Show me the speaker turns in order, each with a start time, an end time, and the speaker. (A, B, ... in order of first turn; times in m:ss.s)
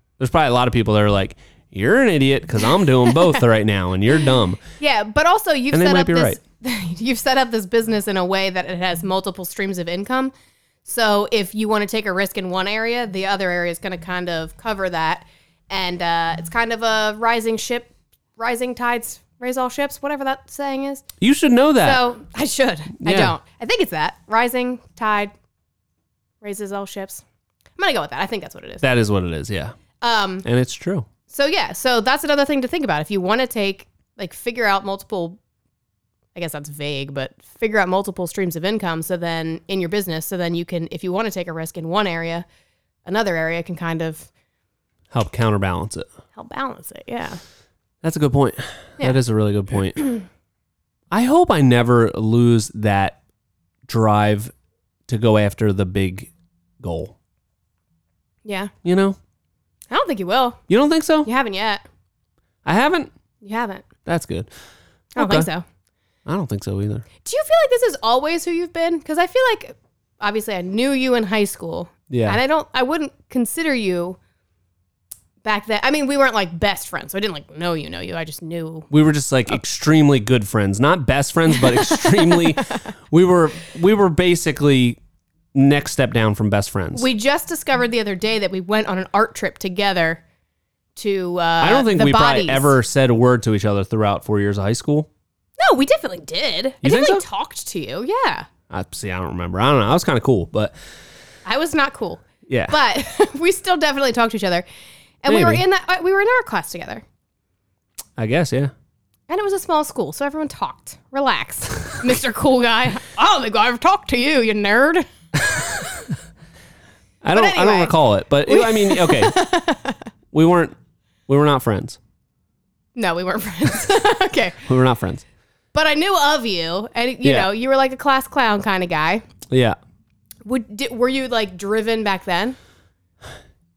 0:00.2-0:04.6 A
0:04.8-0:10.3 B
0:05.7-0:06.4 A
0:10.8-0:21.1 B
0:21.2-0:22.0 A
0:21.8-0:25.3 B
0:23.0-0:23.3 A
0:26.4-0:27.2 B
0:27.8-0:28.8 B
0:28.8-0:29.8 A
0:30.0-0:30.4 B
0:30.4-0:31.1 A
0:31.3-0:35.4 B
0:36.4-0:42.5 B
0:43.1-0:44.3 B
0:45.1-0:46.1 A
0:46.3-0:47.4 B
0:48.0-0:50.2 A
0:51.1-0:53.2 A
0:53.9-0:54.5 A
0:55.1-0:56.3 A
0:56.8-0:57.2 A
0:58.4-0:58.7 B
0:58.8-0:59.2 A
0:59.9-1:00.6 B
1:00.7-1:01.3 A
1:01.3-1:01.8 B
1:02.6-1:03.1 A
1:03.4-1:03.9 B
1:04.0-1:04.5 A
1:05.2-1:05.6 B
1:05.2-1:05.5 A
1:06.3-1:07.1 A
1:07.2-1:14.2 B
1:12.1-1:12.4 A
1:15.4-1:18.9 B
1:18.9-1:25.0 A
1:21.6-1:22.6 B
1:25.5-1:27.1 A
1:26.9-1:30.2 B
1:31.0-1:32.8 B
1:31.6-1:35.1 A
1:35.6-1:38.5 B
1:36.8-1:37.2 A
1:38.7-1:40.7 A
1:41.4-1:44.6 B
1:42.5-1:42.8 A
1:45.2-1:47.0 B
1:45.3-1:45.6 A
1:48.2-1:48.7 A
1:49.3-1:55.9 B
1:57.2-1:59.4 A
1:57.3-1:57.9 B
1:58.5-2:00.0 B
2:00.3-2:00.7 A
2:01.3-2:02.0 A
2:03.0-2:04.6 B
2:04.7-2:05.2 A
2:05.7-2:09.2 B
2:07.2-2:07.5 A
2:09.5-2:09.8 A
2:10.4-2:12.6 B